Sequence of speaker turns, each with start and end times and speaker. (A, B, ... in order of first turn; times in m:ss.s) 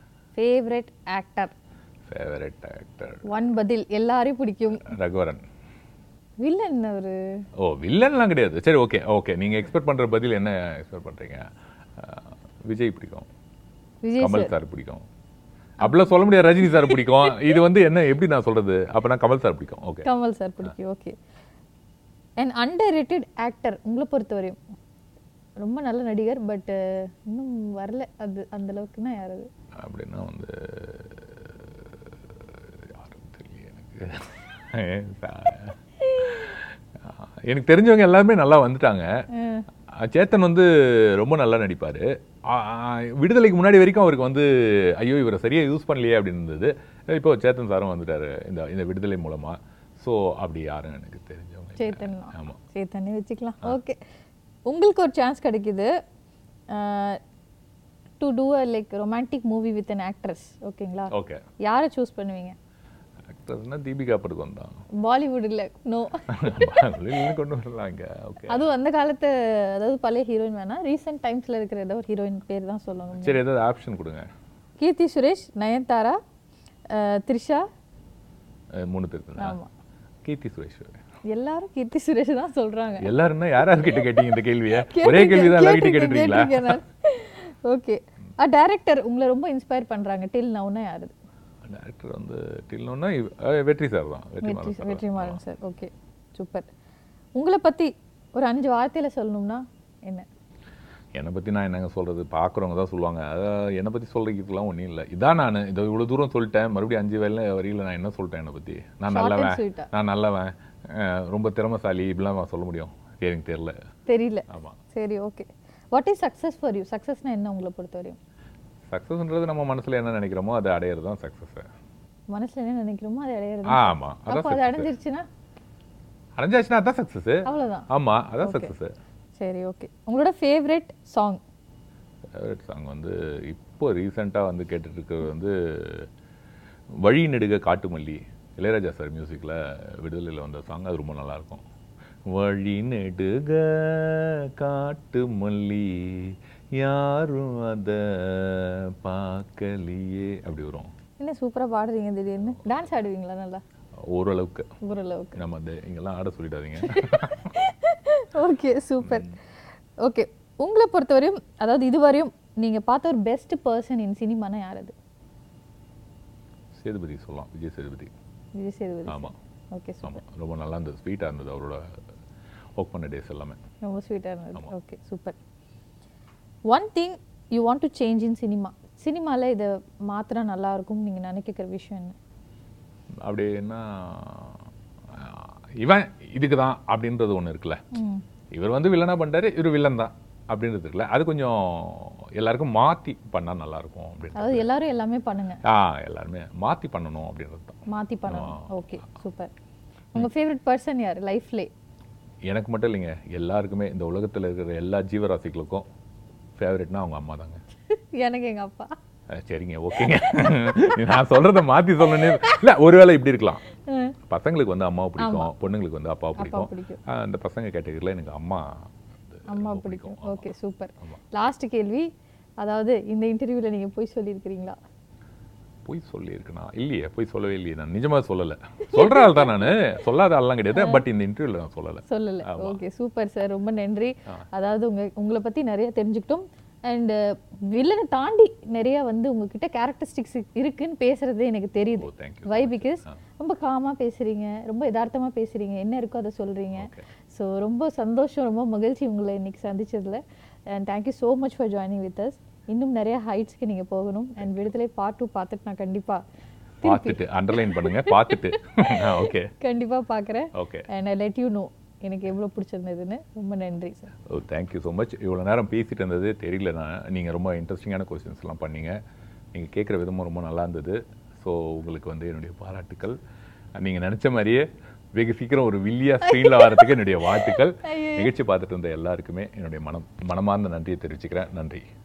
0:00.4-0:01.6 A
0:02.1-0:03.3 B
0:03.3-0:04.9 A
0:04.8-0:05.4 B
0:06.4-0:07.2 A
0:07.6-0:13.3 B
0:14.0-0:14.5 A
0:14.2-0:15.0 B
0:15.8-0:20.1 B
0:16.6-0:17.4 A
0:20.0-0:21.2 A
0:22.4-0:24.6 A
0:25.6-0:29.5 A
0:29.8-0:39.1 B
0:39.3-0:39.7 A
0:39.9-0:52.6 B
0:51.8-0:54.0 A
0:54.7-0:55.9 A
0:56.7-0:57.2 A
0:58.2-1:02.6 A
1:01.1-1:01.4 B
1:03.3-1:04.8 B
1:05.0-1:07.3 A
1:06.3-1:08.7 B
1:08.5-1:13.4 A
1:13.2-1:14.3 B
1:14.8-1:16.2 A
1:16.9-1:17.6 A
1:18.8-1:19.6 B
1:19.4-1:19.7 A
1:20.2-1:21.0 B
1:21.3-1:23.1 A
1:23.0-1:26.8 B
1:23.8-1:31.1 A
1:31.6-1:35.4 B
1:34.4-1:36.7 A
1:37.4-1:40.3 A
1:41.2-1:53.8 B
1:49.1-1:49.9 A
1:54.1-1:58.2 A
1:54.5-1:54.8 B
1:58.9-2:01.7 B
2:02.3-2:05.2 A
2:03.7-2:04.9 B
2:06.4-2:08.9 B
2:07.5-2:07.9 A
2:08.4-2:08.7 A
2:09.4-2:11.4 A
2:12.4-2:16.1 B
2:17.0-2:21.6 B
2:22.3-2:30.9 B
2:31.2-2:33.6 A
2:34.1-2:34.7 B
2:34.8-2:35.4 A
2:35.4-2:37.5 B
2:36.9-2:39.3 A
2:39.0-2:39.4 B
2:40.0-2:45.0 A
2:46.8-2:48.1 B
2:48.6-2:50.2 A
2:49.1-2:49.4 B
2:50.0-2:51.8 B
2:52.8-2:53.6 B
2:53.8-2:55.4 A
2:56.7-3:02.2 A
3:03.2-3:04.6 B
3:05.1-3:07.8 B
3:07.9-3:08.2 A
3:08.5-3:14.7 B
3:14.4-3:15.6 A
3:15.6-3:18.7 B
3:17.9-3:19.5 A
3:20.1-3:21.7 A
3:22.5-3:25.9 B
3:26.6-3:27.6 B
3:28.0-3:28.9 A
3:29.3-3:33.6 B
3:30.7-3:31.0 A
3:32.2-3:32.5 A
3:33.9-3:34.2 A
3:34.3-3:40.4 B
3:35.2-3:35.6 A
3:36.4-3:37.0 A
3:39.5-3:42.1 A
3:42.6-3:44.8 A
3:45.8-3:52.8 B
3:48.9-3:49.7 A
3:50.7-3:51.0 A
3:52.1-4:16.2 A
4:02.0-4:03.2 B
4:06.8-4:07.1 B
4:14.4-4:14.7 B
4:16.8-4:24.1 A
4:16.8-4:19.5 B
4:20.6-4:20.9 B
4:24.3-4:29.0 B
4:29.5-4:33.2 B
4:33.8-4:41.8 B
4:36.3-4:38.3 A